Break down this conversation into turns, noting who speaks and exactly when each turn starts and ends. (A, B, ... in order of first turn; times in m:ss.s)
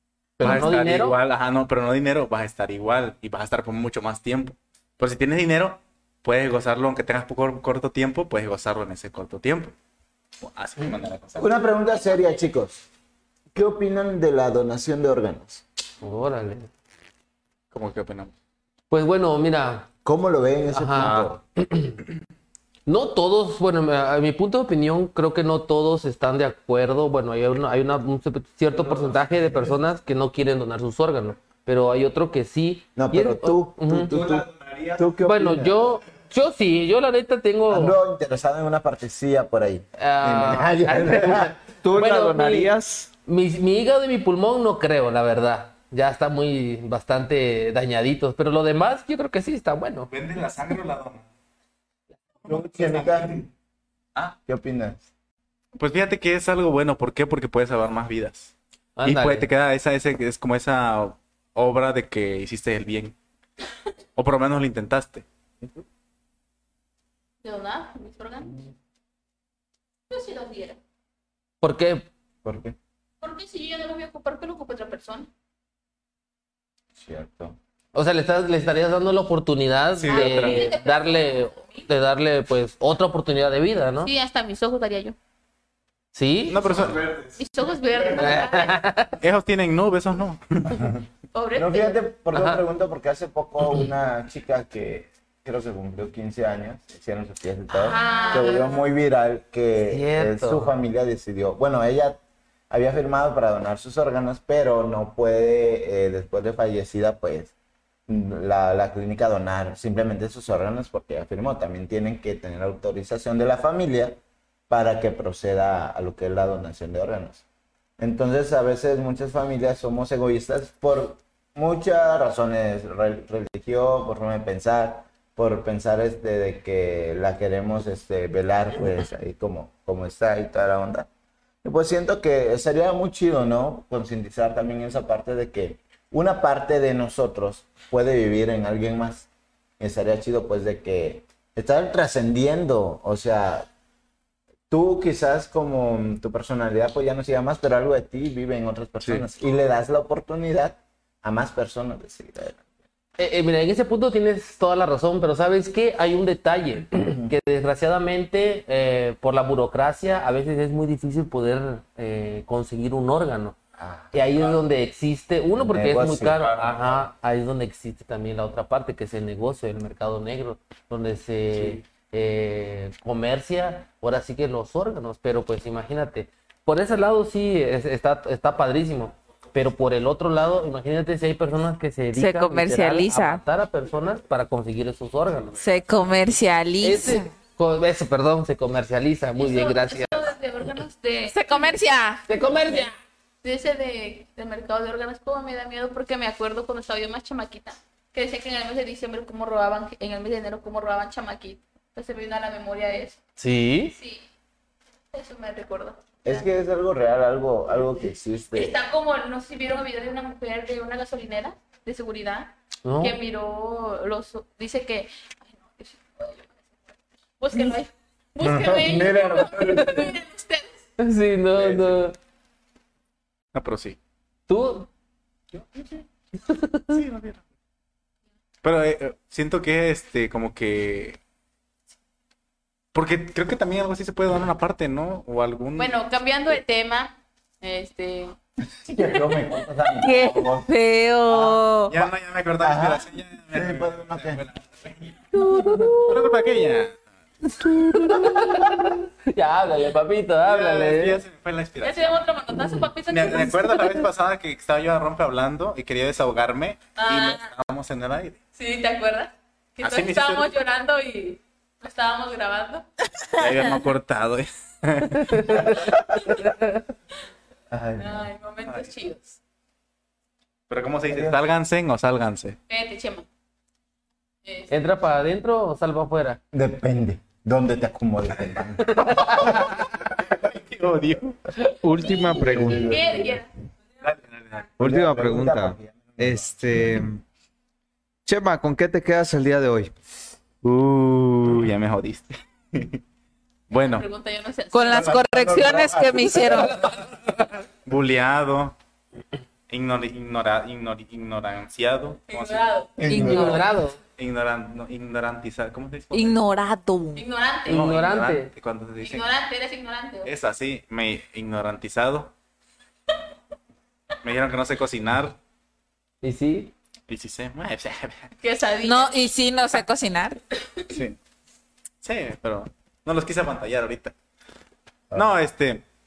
0:00.4-0:01.2 A
0:00.4-0:09.8 B
0:10.4-0:11.5 B
0:11.4-0:12.9 C
0:13.5-0:15.6 C
0:16.0-0:16.7 A
0:17.7-0:18.3 B
0:18.9-0:19.9 A
0:20.0-0:21.4 C
0:20.7-0:22.0 A
0:21.0-0:21.3 B
0:22.9-0:34.2 A
0:33.0-0:34.5 C
0:34.1-0:35.0 B
0:35.0-0:35.9 C
0:35.2-0:38.0 A
0:37.7-0:41.6 C
0:40.0-0:42.7 A
0:41.8-0:43.1 D
0:43.3-0:50.1 A
0:50.1-0:51.2 B
0:52.4-0:53.4 B
0:52.5-0:53.4 C
0:54.5-0:55.0 C
0:55.8-0:58.5 B
0:59.0-0:59.5 A
0:59.0-1:03.2 B
1:04.2-1:05.2 B
1:07.4-1:08.6 E
1:10.1-1:10.8 E
1:11.6-1:12.1 A
1:12.4-1:12.8 C
1:13.2-1:15.3 E
1:17.0-1:17.6 C
1:17.9-1:24.1 A
1:20.0-1:20.8 B
1:20.1-1:21.9 E
1:24.0-1:25.2 E
1:26.1-1:26.6 A
1:26.5-1:27.1 B
1:26.7-1:27.2 C
1:27.4-1:28.9 E
1:28.1-1:29.2 A
1:29.2-1:30.9 B
1:31.3-1:32.0 E
1:31.6-1:42.2 C
1:32.3-1:32.6 A
1:37.7-1:38.9 E
1:38.0-1:38.4 A
1:39.9-1:40.7 A
1:42.7-1:47.5 C
1:48.1-1:57.4 C
1:58.0-2:11.1 C
2:11.6-2:19.3 C
2:19.8-2:23.7 C
2:24.7-2:32.6 C
2:33.2-2:43.6 A
2:43.8-2:44.6 C
2:44.1-3:05.6 A
2:45.6-2:46.6 C
2:46.4-2:47.0 B
3:02.1-3:03.4 F
3:05.6-3:07.3 F
3:06.8-3:10.3 A
3:09.4-3:11.8 E
3:11.3-3:12.2 F
3:12.3-3:12.9 A
3:12.4-3:12.8 E
3:13.4-3:23.2 E
3:23.4-3:24.0 A
3:23.9-3:24.3 E
3:25.1-3:26.5 E
3:26.2-3:28.8 C
3:28.6-3:40.8 E
3:32.8-3:33.2 A
3:38.4-3:40.2 C
3:41.0-3:42.2 A
3:41.6-3:41.9 B
3:43.5-3:44.0 B
3:44.5-3:44.9 A
3:45.5-3:46.0 B
3:46.5-3:47.0 A
3:46.9-3:47.4 B
3:48.6-3:51.2 B
3:52.9-3:56.0 B
3:55.8-3:58.4 E
3:58.8-4:00.7 C
4:00.0-4:01.9 F
4:01.3-4:01.6 C
4:01.9-4:05.2 B
4:02.6-4:04.4 C
4:05.3-4:06.4 A
4:05.8-4:06.0 F
4:06.1-4:07.0 B
4:07.7-4:11.2 A
4:10.4-4:12.3 B
4:11.8-4:14.1 E
4:13.1-4:18.4 B
4:17.0-4:17.5 E
4:18.6-4:22.9 E
4:19.8-4:20.5 B
4:23.3-4:25.6 B
4:25.1-4:26.8 A
4:27.7-4:28.3 C
4:28.0-4:29.4 E
4:30.7-4:32.6 B
4:31.1-4:31.4 C
4:32.7-4:33.3 E
4:34.4-4:34.7 E
4:34.7-4:36.4 A
4:36.5-4:39.9 C
4:39.0-4:39.6 A
4:39.2-4:41.4 B
4:41.8-4:43.0 D
4:42.1-4:43.4 C
4:42.8-4:43.5 E
4:44.0-4:44.7 B
4:44.8-4:47.0 C
4:44.8-4:47.2 D
4:48.3-4:49.9 D
4:50.6-4:53.0 B
4:53.7-4:54.1 B
4:53.9-4:55.3 E
4:54.7-4:56.8 F
4:54.8-4:56.9 C
4:56.5-4:57.5 A
4:57.8-4:58.8 B
4:59.7-5:02.7 B
5:02.3-5:03.0 E
5:03.0-5:03.6 C
5:03.1-5:03.7 F
5:03.1-5:04.0 A
5:04.2-5:06.4 B
5:06.1-5:07.2 F
5:07.2-5:07.9 E
5:07.7-5:08.5 A
5:07.7-5:09.3 B
5:09.0-5:10.3 E
5:10.2-5:12.3 B
5:14.2-5:15.4 B
5:16.2-5:16.7 A
5:17.1-5:18.3 B
5:18.4-5:19.3 E
5:18.8-5:20.4 F
5:20.9-5:21.2 B
5:22.0-5:24.1 B
5:25.1-5:25.8 B